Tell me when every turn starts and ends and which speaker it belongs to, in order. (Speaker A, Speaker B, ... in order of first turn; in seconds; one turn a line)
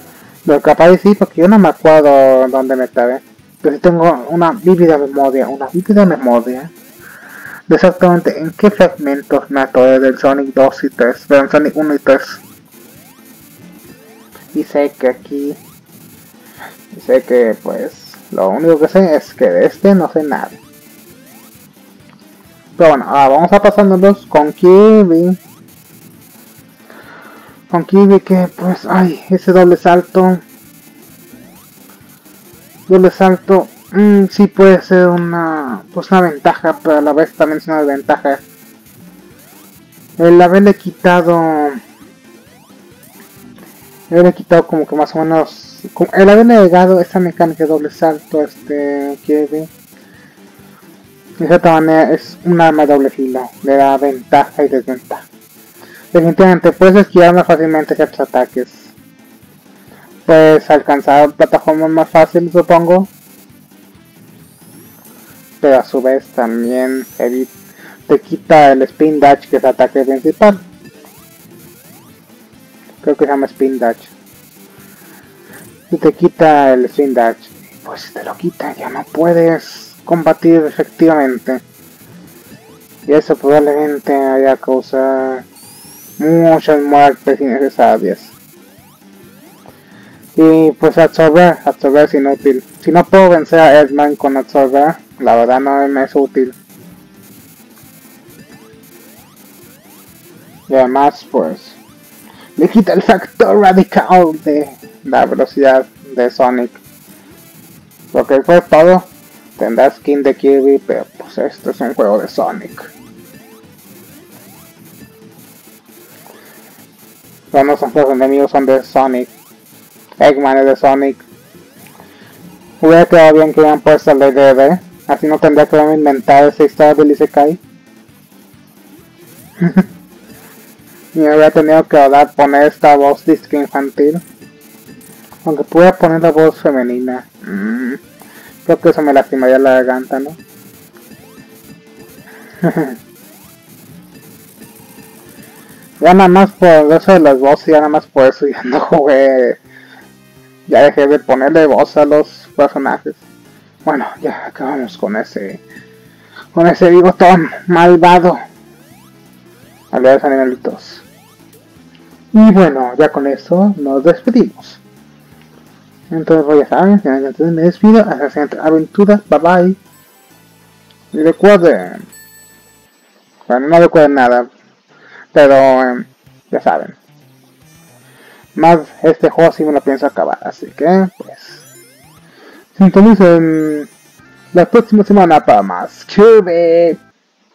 Speaker A: 0.5-6.7
Speaker A: 7.7-12.4
Speaker A: 14.5-15.6
Speaker A: 16.9-20.6
Speaker A: 22.8-25.4
Speaker A: 27.7-30.4
Speaker A: 32.9-38.4
Speaker A: 40.2-41.8
Speaker A: 44.1-49.7
Speaker A: 51.4-55.3
Speaker A: 56.1-58.9
Speaker A: 60.3-63.1
Speaker A: 65.6-67.5
Speaker A: 68.1-70.6
Speaker A: 73.0-74.1
Speaker A: 75.9-81.6
Speaker A: 83.1-85.5
Speaker A: 86.2-88.3
Speaker A: 90.4-96.5
Speaker A: 100.7-101.8
Speaker A: 102.6-106.8
Speaker A: 108.1-112.9
Speaker A: 117.5-119.3
Speaker A: 120.2-121.2
Speaker A: 122.8-127.6
Speaker A: 131.2-134.2
Speaker A: 135.4-138.0
Speaker A: 138.7-140.4
Speaker A: 142.6-143.0
Speaker A: 146.0-149.6
Speaker A: 150.7-153.2
Speaker A: 153.8-155.6
Speaker A: 156.5-158.4
Speaker A: 159.9-161.0
Speaker A: 162.3-164.8
Speaker A: 166.1-169.8
Speaker A: 171.1-172.1
Speaker A: 173.5-174.5
Speaker A: 175.3-177.0
Speaker A: 178.6-181.7
Speaker A: 182.8-183.9
Speaker A: 184.5-187.0